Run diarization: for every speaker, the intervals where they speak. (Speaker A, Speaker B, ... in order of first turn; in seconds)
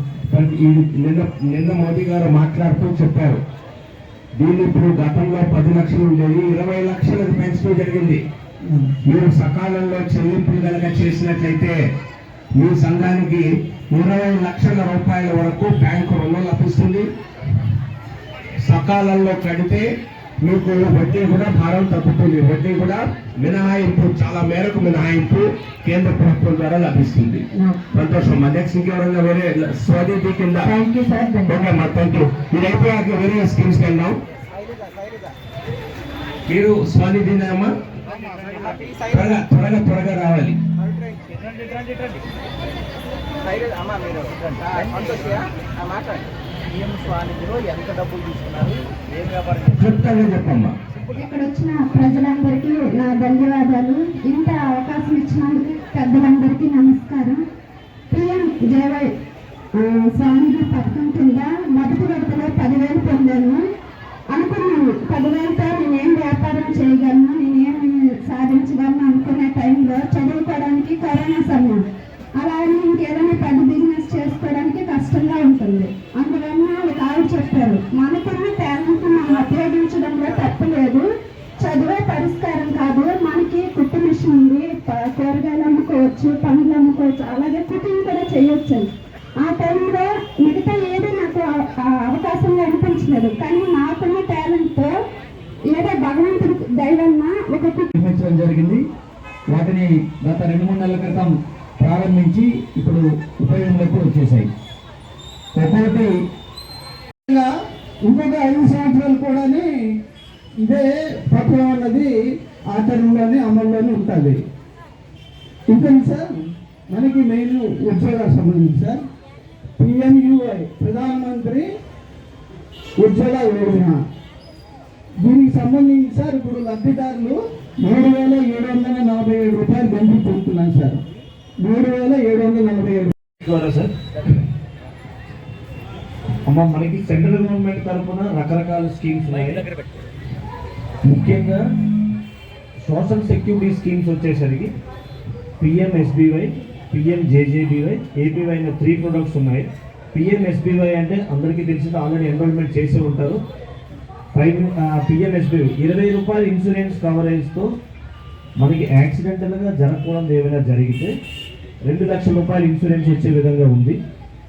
Speaker A: 0.2-3.4, 4.4-8.2, 9.1-11.8, 12.6-17.1, 18.6-19.9, 20.4-30.8, 31.4-34.2, 36.5-37.7, 39.1-40.6, 49.7-50.7
Speaker B: 27.6-27.8, 30.6-31.8, 98.0-98.8, 99.5-104.5, 105.6-106.1
Speaker C: 34.5-35.3, 38.3-39.4, 40.8-41.9, 43.4-49.7
Speaker D: 51.1-57.4, 58.1-59.1, 59.8-63.6, 64.3-71.8, 72.4-81.1, 81.6-88.9, 89.4-94.9, 95.7-97.9
Speaker E: 108.0-109.7, 110.6-112.1, 112.7-114.4, 115.7-119.0, 119.8-121.7, 123.0-124.0, 125.2-131.0, 131.6-133.1
Speaker F: 133.4-134.3, 136.5-139.6, 141.0-141.6, 142.8-144.7, 145.6-153.4, 154.3-157.7, 158.6-161.1, 161.9-164.0